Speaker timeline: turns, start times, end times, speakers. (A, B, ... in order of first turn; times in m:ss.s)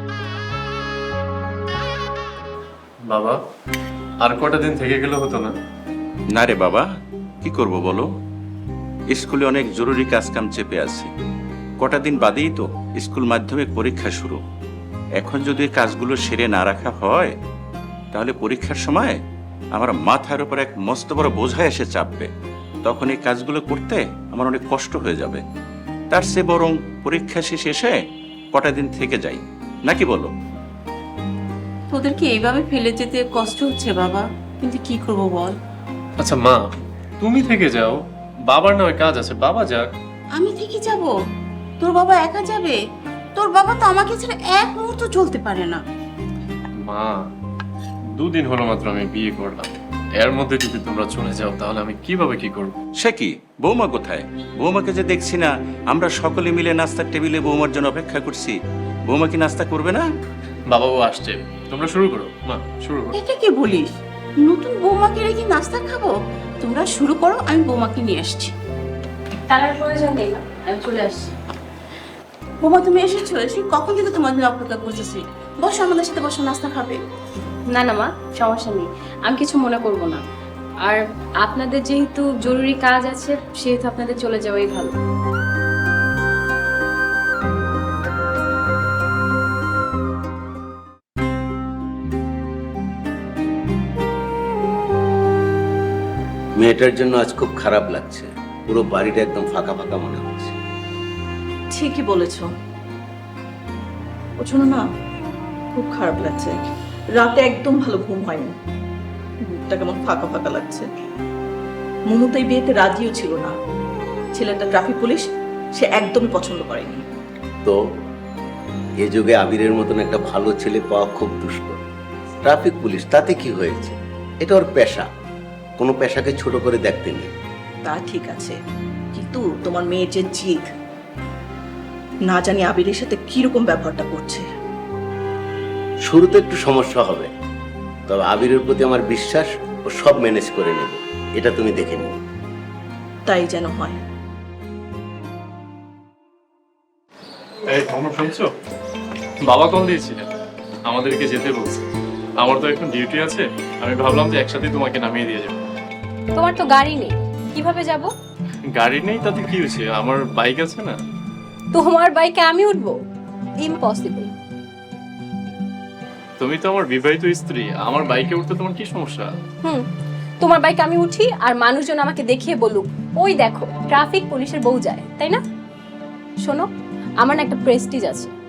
0:03.1-0:03.4 A
0:04.2-0:05.6 A
0:06.3-0:06.8 B
0:07.4-0:08.1 B
0:09.1-0:11.1 B
0:11.8-0:14.4 B
0:15.2-0:17.3 B
0:18.1-0:19.2 B
0:19.8-0:22.3 B
0:22.8-0:25.4 B
0:26.1-0:28.0 B
0:28.5-0:30.3 B
0:31.9-0:35.6 C
0:36.2-0:36.7 A
0:37.2-0:39.9 A
0:40.4-0:41.2 C
0:41.8-0:42.8 C
0:43.4-0:45.8 C
0:46.8-0:47.2 A
0:48.1-0:52.8 A
0:53.0-0:58.6 B
0:59.1-1:00.0 B
1:00.7-1:03.2 A
1:03.1-1:08.6 C
1:09.5-1:11.3 D
1:12.6-1:17.0 C
1:17.7-1:20.3 D
1:20.8-1:25.0 D
1:36.6-1:40.6 E
1:41.7-1:42.5 F
1:44.4-1:44.9 F
1:45.7-1:46.6 F
1:47.2-1:48.6 F
1:49.4-1:50.9 F
1:52.1-1:53.6 F
1:54.3-1:57.0 F
1:59.0-2:01.8 E
2:02.4-2:05.1 E
2:05.8-2:07.3 E
2:07.8-2:08.6 F
2:09.1-2:10.7 F
2:12.3-2:14.5 F
2:16.1-2:17.3 E
2:18.1-2:22.1 E
2:23.3-2:24.0 F
2:27.7-2:28.5 A
2:29.4-2:30.3 A
2:30.9-2:35.6 A
2:36.4-2:38.1 D
2:38.7-2:41.0 A
2:41.7-2:43.0 D
2:43.6-2:44.3 D
2:46.4-2:49.3 A
2:50.4-2:55.4 D
2:57.2-2:58.3 D